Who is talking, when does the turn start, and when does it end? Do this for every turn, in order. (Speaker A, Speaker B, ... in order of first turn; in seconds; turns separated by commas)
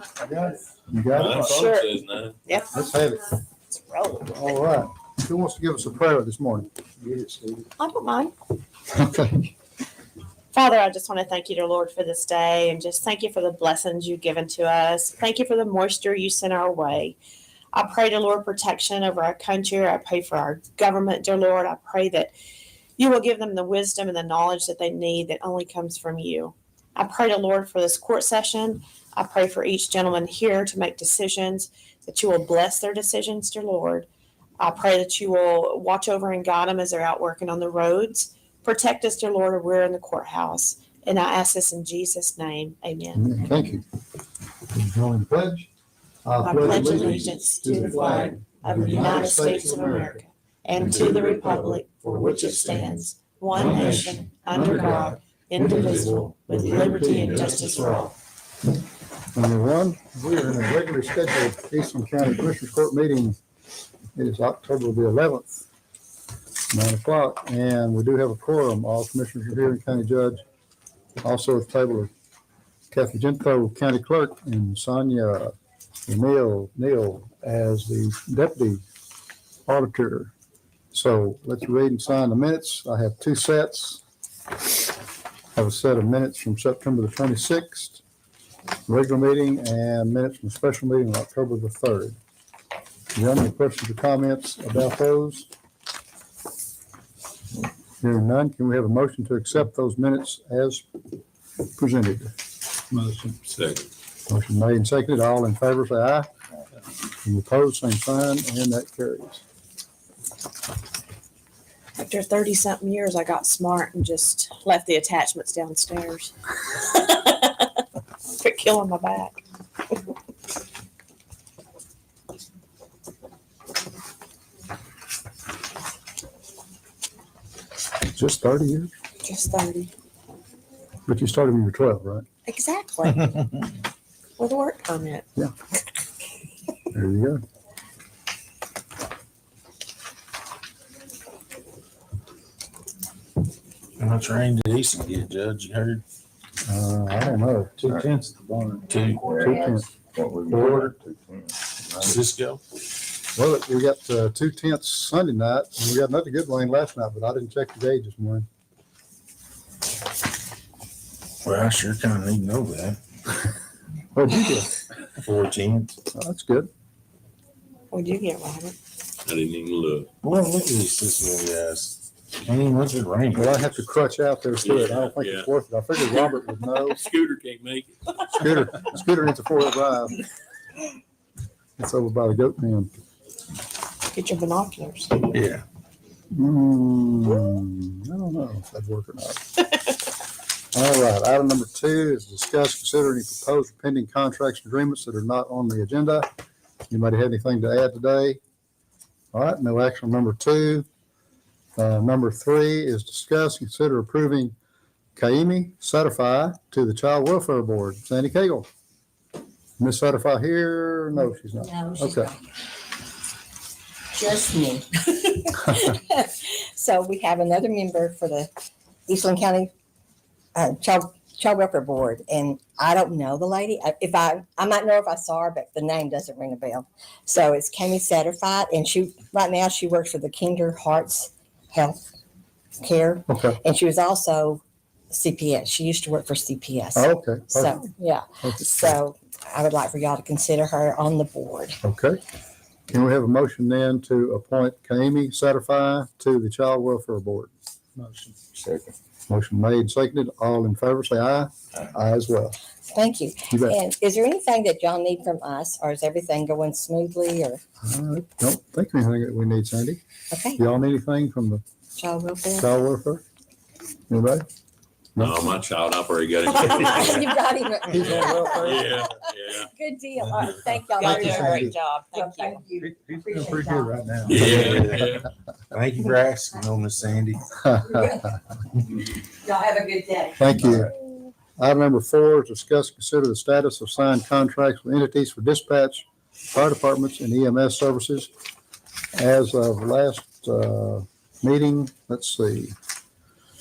Speaker A: 0.2-1.8, Speaker B: 1.1-2.4, Speaker C: 1.3-2.9, Speaker A: 2.7-3.3, Speaker C: 3.5-4.6, Speaker A: 4.3-7.6, Speaker C: 7.8-8.3, Speaker A: 8.9-9.5, Speaker C: 10.5-17.2, Speaker C: 17.7-22.3, Speaker C: 23.0-34.1, Speaker C: 34.6-43.3, Speaker A: 43.1-43.8, Speaker A: 44.7-45.7, Speaker A: 46.2-50.2, Speaker C: 46.4-58.1, Speaker A: 53.6-58.1, Speaker D: 56.9-57.6, Speaker A: 59.3-63.4, Speaker A: 64.2-65.7, Speaker A: 66.7-70.4, Speaker A: 71.2-72.1, Speaker A: 72.9-75.5, Speaker A: 76.1-78.8, Speaker A: 79.7-80.3, Speaker A: 80.9-84.0, Speaker A: 85.6-88.0, Speaker A: 88.9-92.2, Speaker A: 93.2-95.5, Speaker A: 98.0-101.0, Speaker A: 101.7-102.3, Speaker A: 102.9-103.4, Speaker B: 103.5-103.9, Speaker A: 104.3-106.3, Speaker A: 107.2-109.4, Speaker C: 112.0-117.7, Speaker C: 118.3-119.4, Speaker A: 128.1-128.9, Speaker C: 129.2-129.9, Speaker A: 131.1-132.3, Speaker C: 132.5-133.4, Speaker C: 134.4-135.2, Speaker A: 136.9-137.4, Speaker D: 144.0-146.0, Speaker A: 146.7-147.9, Speaker E: 147.8-148.6, Speaker D: 148.9-149.4, Speaker E: 149.2-152.2, Speaker A: 149.4-149.9, Speaker A: 150.5-150.9, Speaker D: 150.6-150.9, Speaker D: 152.0-152.6, Speaker A: 153.4-158.5, Speaker D: 161.4-163.0, Speaker A: 164.1-164.8, Speaker D: 165.2-166.0, Speaker A: 166.2-166.7, Speaker C: 167.9-168.8, Speaker B: 169.3-170.1, Speaker D: 170.2-173.8, Speaker A: 173.3-177.1, Speaker B: 174.6-175.5, Speaker B: 176.9-178.5, Speaker A: 178.4-180.2, Speaker A: 181.8-182.9, Speaker C: 184.1-185.3, Speaker D: 185.3-185.7, Speaker A: 186.3-189.4, Speaker A: 190.7-196.3, Speaker A: 196.9-198.4, Speaker A: 199.3-200.9, Speaker A: 201.8-204.5, Speaker A: 205.2-208.7, Speaker A: 209.8-212.3, Speaker F: 211.4-212.3, Speaker F: 214.1-218.5, Speaker F: 219.1-219.7, Speaker F: 220.6-232.1, Speaker F: 232.8-241.8, Speaker A: 233.3-233.6, Speaker A: 237.0-237.9, Speaker A: 238.4-239.0, Speaker A: 241.8-242.2, Speaker A: 242.9-248.1, Speaker A: 249.3-252.6, Speaker F: 252.9-257.6, Speaker A: 253.5-253.8, Speaker A: 257.8-260.0, Speaker F: 260.3-260.6, Speaker A: 260.6-261.6, Speaker F: 262.0-262.7, Speaker A: 262.6-263.2, Speaker A: 264.1-264.4, Speaker B: 265.2-267.3, Speaker F: 266.5-273.9, Speaker A: 267.9-268.9, Speaker B: 268.0-269.7, Speaker C: 271.0-272.6, Speaker A: 271.0-271.7, Speaker D: 272.9-275.2, Speaker A: 274.0-274.8, Speaker B: 274.3-275.3, Speaker D: 275.7-277.6, Speaker A: 277.7-277.9, Speaker F: 277.9-278.3, Speaker F: 279.4-280.4, Speaker A: 280.4-280.9, Speaker A: 281.6-288.3, Speaker A: 289.2-292.8